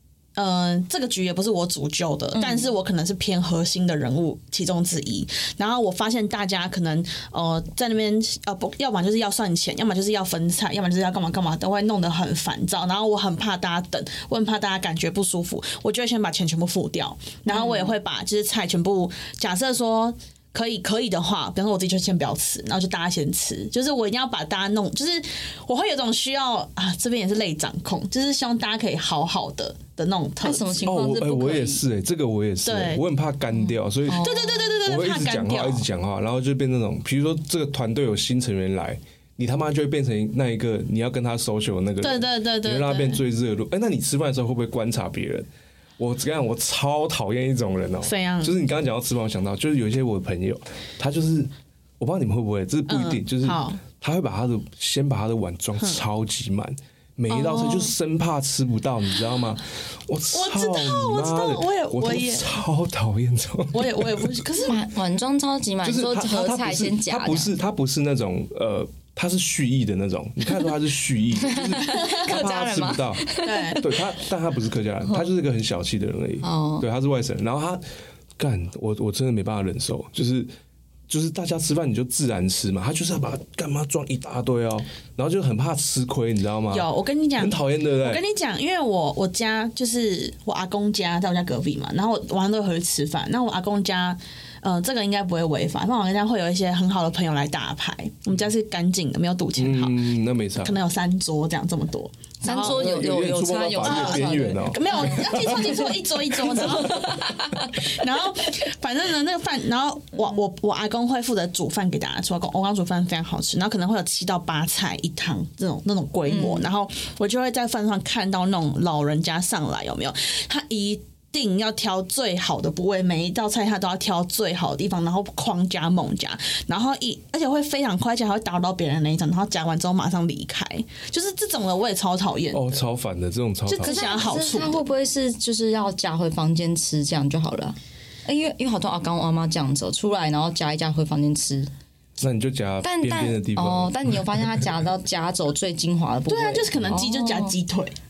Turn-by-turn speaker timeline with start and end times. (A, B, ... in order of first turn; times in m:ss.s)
0:00.4-0:30.8 A
0:02.3-0:02.7 B
0:17.5-0:17.9 B
0:30.4-0:31.8 B
0:30.8-0:34.3 C
0:32.6-0:33.0 A
0:33.5-0:34.8 B
0:34.2-0:35.8 A
0:34.8-1:04.4 C
0:42.0-0:43.2 A
0:48.0-0:48.6 A
0:52.9-0:53.8 A
0:57.3-0:57.9 A
1:00.3-1:02.5 A
1:03.7-1:04.8 A
1:04.6-1:07.5 B
1:05.8-1:17.8 C
1:11.4-1:14.0 B
1:13.4-1:13.9 A
1:16.4-1:16.8 B
1:18.4-1:20.5 C
1:21.1-1:28.2 C
1:26.7-1:40.1 A
1:39.6-1:40.8 C
1:40.6-1:42.9 A
1:42.4-1:45.9 B
1:42.5-1:45.9 C
1:43.8-2:12.8 A
1:46.5-1:47.9 B
1:46.6-1:46.9 C
1:56.3-1:56.7 B
2:12.5-2:14.0 C
2:13.7-2:14.8 A
2:13.8-2:21.7 B
2:22.2-2:24.6 C
2:22.8-2:27.5 B
2:26.3-2:27.9 A